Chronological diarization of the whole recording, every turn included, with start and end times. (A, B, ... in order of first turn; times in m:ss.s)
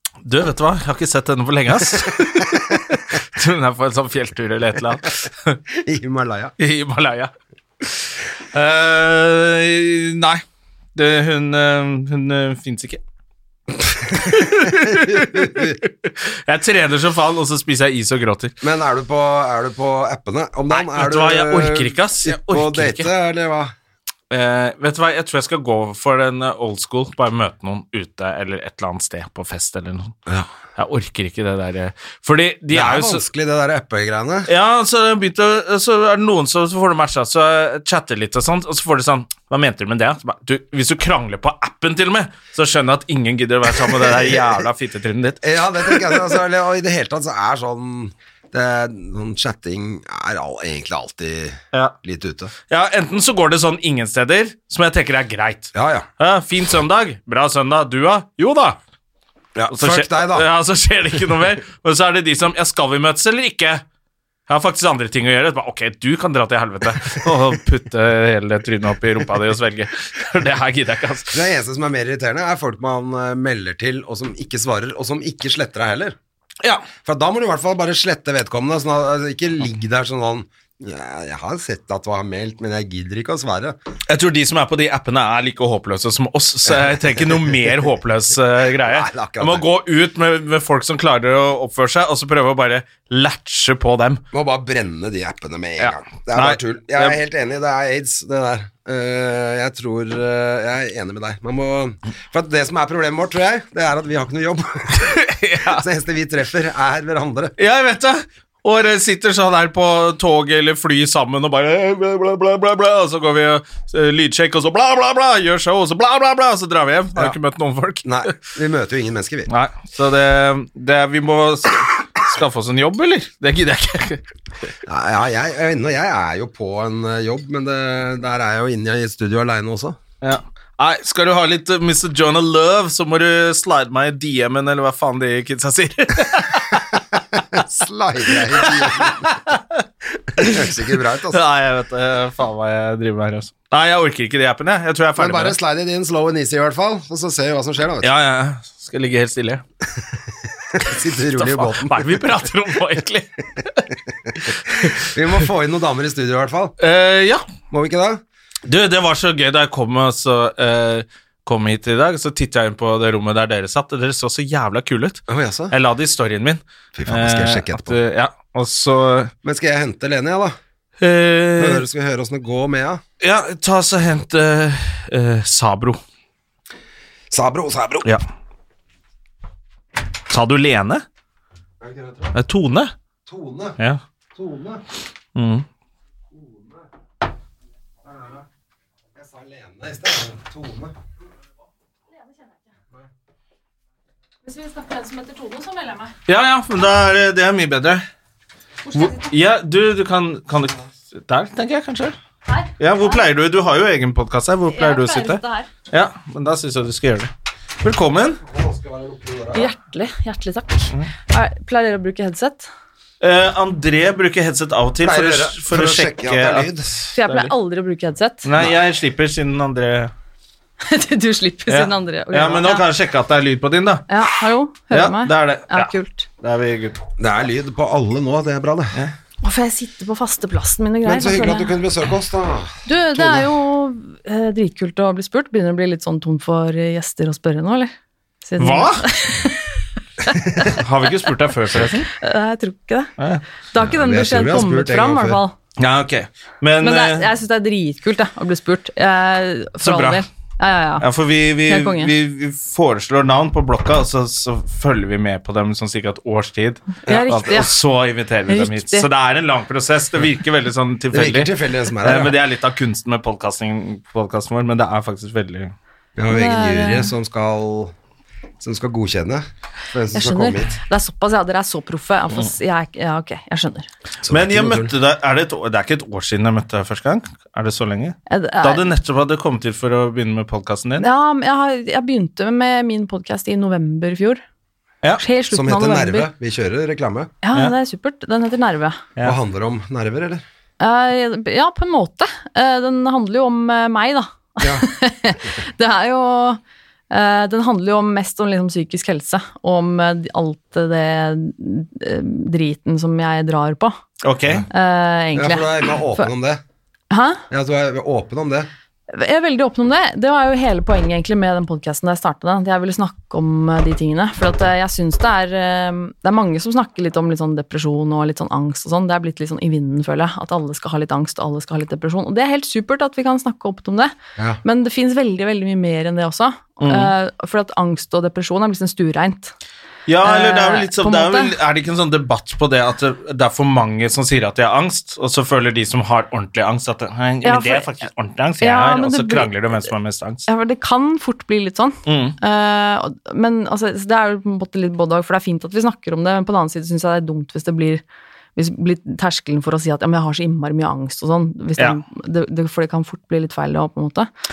0:00.3-0:05.6 A
0:05.7-0:06.5 B
0:06.6-0:07.3 A
0:07.8-0:10.4 A
0:11.0-0:13.0 A
0:14.1-0:15.8 B
0:14.1-0:18.5 A
0:18.6-0:23.7 B
0:20.7-0:23.1 A
0:24.3-0:30.1 A
0:30.8-0:33.2 A
0:32.7-0:34.5 B
0:34.5-0:46.2 A
0:44.1-0:44.3 B
0:45.4-0:52.5 B
0:52.7-0:58.8 A
0:55.7-0:56.1 B
0:59.6-1:00.5 B
0:59.7-1:03.8 A
1:04.5-1:11.4 A
1:11.3-1:16.2 B
1:16.6-1:16.9 A
1:17.0-1:23.8 B
1:24.1-1:34.2 A
1:26.7-1:27.7 B
1:28.8-1:29.7 B
1:34.3-1:47.6 B
1:35.8-1:37.2 A
1:45.0-1:45.8 A
1:47.6-1:58.4 A
1:58.0-1:59.5 B
1:59.5-2:04.2 A
2:04.9-2:10.0 B
2:10.2-2:17.0 A
2:17.3-2:19.3 B
2:18.5-2:19.8 A
2:20.3-2:21.4 B
2:20.4-2:20.8 A
2:21.3-2:25.6 A
2:25.2-2:28.1 B
2:28.0-2:29.6 A
2:30.7-2:32.2 B
2:31.3-2:33.9 A
2:34.5-2:35.1 A
2:34.8-2:36.8 B
2:36.8-2:37.4 A
2:37.7-2:38.2 B
2:38.7-2:49.3 A
2:45.3-2:45.7 B
2:47.0-2:48.0 B
2:49.4-2:50.6 B
2:51.0-2:51.8 A
2:51.6-2:53.0 B
2:53.2-2:56.0 A
2:57.3-2:58.1 B
3:00.3-3:01.0 A
3:01.8-3:02.4 B
3:02.3-3:02.9 A
3:03.3-3:03.8 B
3:04.4-3:04.8 B
3:05.4-3:05.6 A
3:06.3-3:06.9 B
3:08.0-3:08.4 B
3:09.2-3:10.9 B
3:14.4-3:16.1 C
3:16.3-3:18.0 A
3:18.9-3:19.3 C
3:18.9-3:22.2 A
3:22.5-3:23.2 C
3:22.8-3:27.3 A
3:24.7-3:25.7 C
3:27.8-3:28.4 A
3:28.4-3:29.7 B
3:29.5-3:32.7 C
3:33.2-3:37.5 A
3:35.0-3:36.9 B
3:37.2-3:38.5 C
3:38.4-3:40.1 A
3:40.8-3:42.9 C
3:41.7-3:44.1 A
3:44.1-3:46.3 C
3:44.9-3:47.0 A
3:47.2-3:49.0 B
3:49.4-3:51.8 C
3:51.0-3:53.5 B
3:52.9-3:57.9 C
3:58.4-4:00.8 C
3:58.6-3:59.1 A
4:00.6-4:02.1 A
4:02.1-4:03.1 C
4:03.7-4:05.5 C
4:03.8-4:05.4 B
4:05.8-4:07.3 A
4:06.8-4:11.1 C
4:09.8-4:10.2 A
4:11.0-4:25.7 A
4:11.7-4:12.1 C
4:17.1-4:17.7 C
4:18.5-4:19.1 C
4:21.1-4:22.4 B
4:26.2-4:27.9 B
4:26.3-4:27.1 C
4:28.6-4:30.7 B
4:30.1-4:33.9 C
4:34.2-4:34.9 B
4:34.3-4:41.1 A
4:38.3-4:38.9 C
4:41.0-4:44.4 C
4:45.2-4:46.3 C
4:45.5-4:47.3 B
4:47.4-4:49.0 C
4:49.2-4:50.4 B
4:50.8-4:56.6 C
4:54.6-4:54.9 B
4:57.1-5:04.0 C
5:04.2-5:04.7 A
5:04.7-5:06.3 C
5:05.4-5:06.6 B
5:07.1-5:07.4 C
5:07.5-5:08.7 B
5:09.1-5:29.5 C
5:26.8-5:27.1 A
5:30.1-5:40.5 A
5:30.2-5:31.5 C
5:37.4-5:37.9 C
5:38.6-5:39.5 C
5:40.5-5:48.0 C
5:42.1-5:42.4 A
5:48.6-5:54.3 C